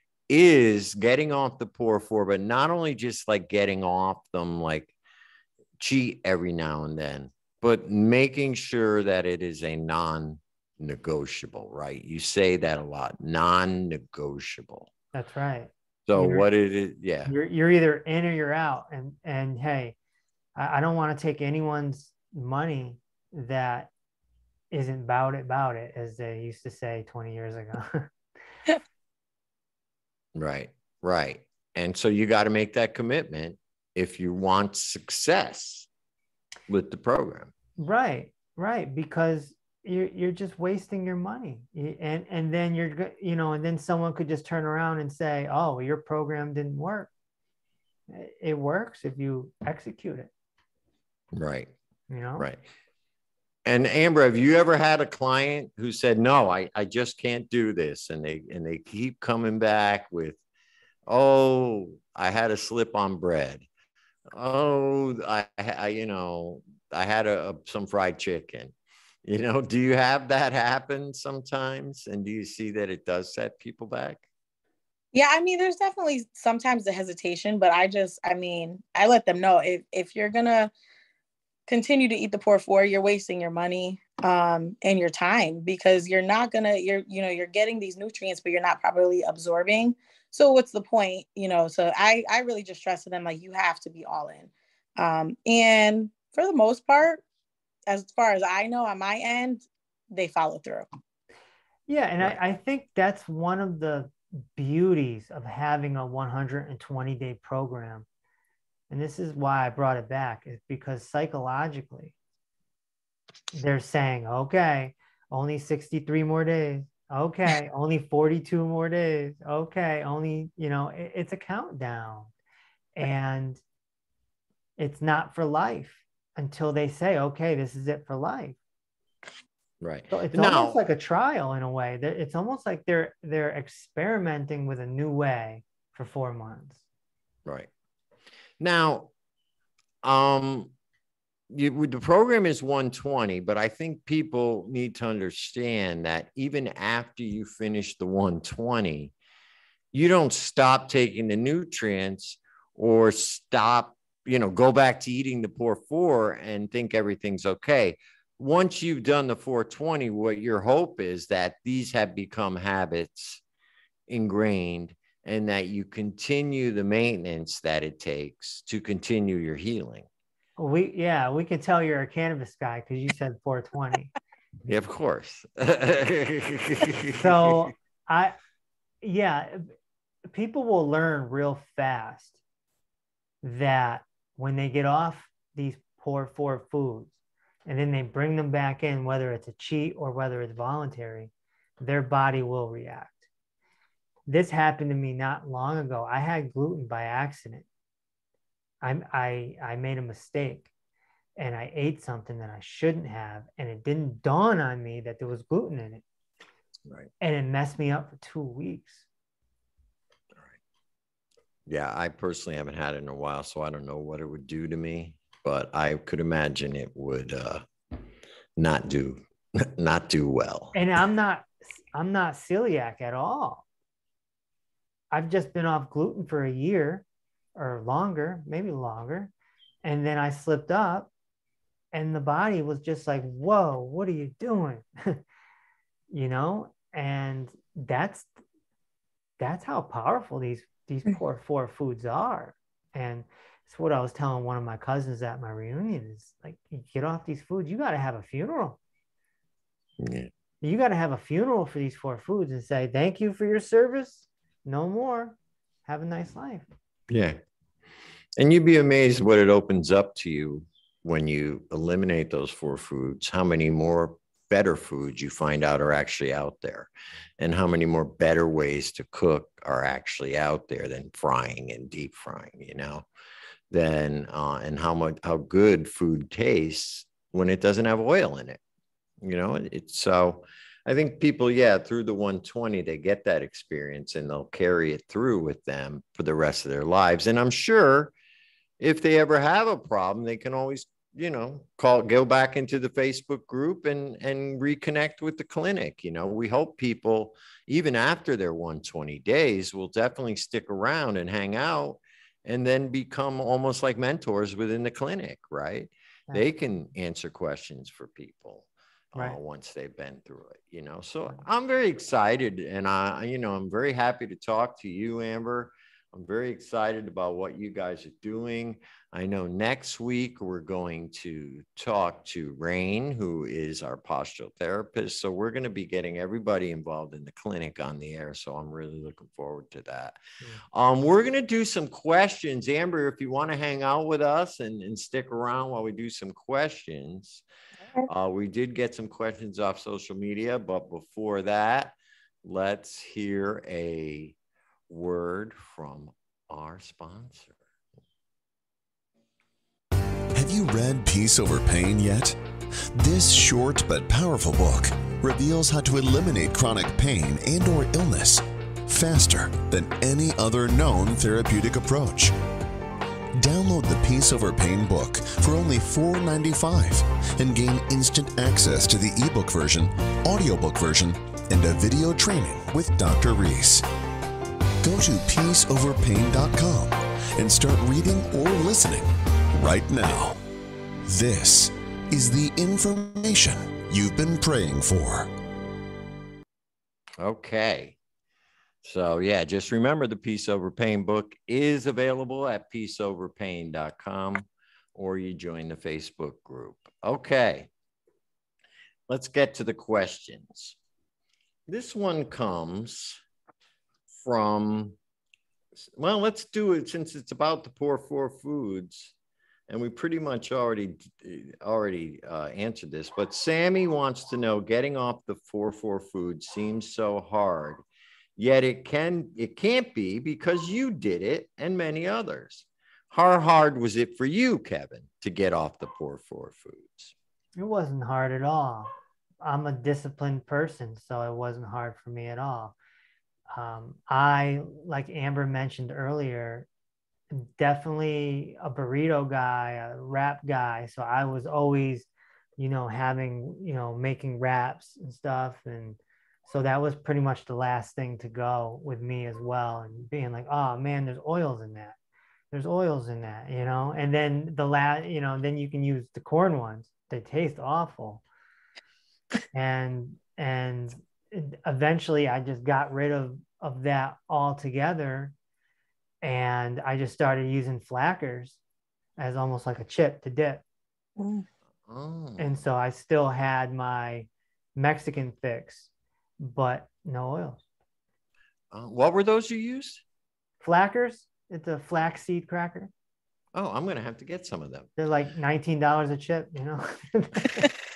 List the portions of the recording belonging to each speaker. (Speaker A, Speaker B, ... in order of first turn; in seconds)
Speaker A: 0.3-4.9, 5.8-14.9, 16.1-17.3, 30.4-35.9, 36.7-37.5, 51.3-51.8, 52.4-52.6, 53.7-60.4, 61.1-63.7, 64.3-68.7, 69.2-74.2, 129.8-130.8, 138.6-139.1, 140.0-140.7, 141.5-149.1, 149.9-163.4, 164.1-170.1, 174.7-177.7, 211.7-217.6, 218.6-220.8, 250.0-250.3, 257.1-257.4, 258.4-273.1, 273.7-278.6, 279.2-288.1, 288.8-330.2, 330.7-337.4, 338.1-344.4, 344.9-347.6, 387.2-388.0, 388.8-397.7, 399.1-400.8, 401.7-403.2, 404.1-405.0, 405.8-409.1, 409.7-417.8, 418.4-427.1, 471.9-472.5, 478.7-480.0, 483.6-484.9
Speaker B: 15.1-16.5, 17.3-19.9, 20.6-23.9, 24.7-28.1, 37.8-47.1, 48.1-50.3, 52.1-52.5, 101.9-108.1, 108.9-112.1, 113.5-122.3, 123.0-123.6, 124.8-128.6, 130.1-136.8, 170.6-174.1, 177.2-178.4, 179.0-179.7, 180.3-182.4, 183.4-187.1, 187.7-193.3, 194.3-197.7, 198.8-200.7, 201.4-206.0, 207.2-209.1, 220.7-223.7, 225.1-227.0, 227.6-229.3, 229.8-231.1, 231.9-235.2, 236.1-238.3, 239.4-248.8, 250.6-256.7, 427.6-428.9, 429.4-432.8, 433.5-436.7, 437.3-452.0, 452.5-458.2, 459.5-465.3, 466.2-468.6, 469.2-470.6, 472.4-475.9, 476.4-477.6, 480.6-482.9, 485.0-487.7
Speaker C: 75.1-80.7, 81.7-97.2, 97.9-100.9, 471.2-471.5
Speaker D: 350.3-352.4, 352.9-362.4, 363.4-373.9, 374.8-380.4, 381.1-385.3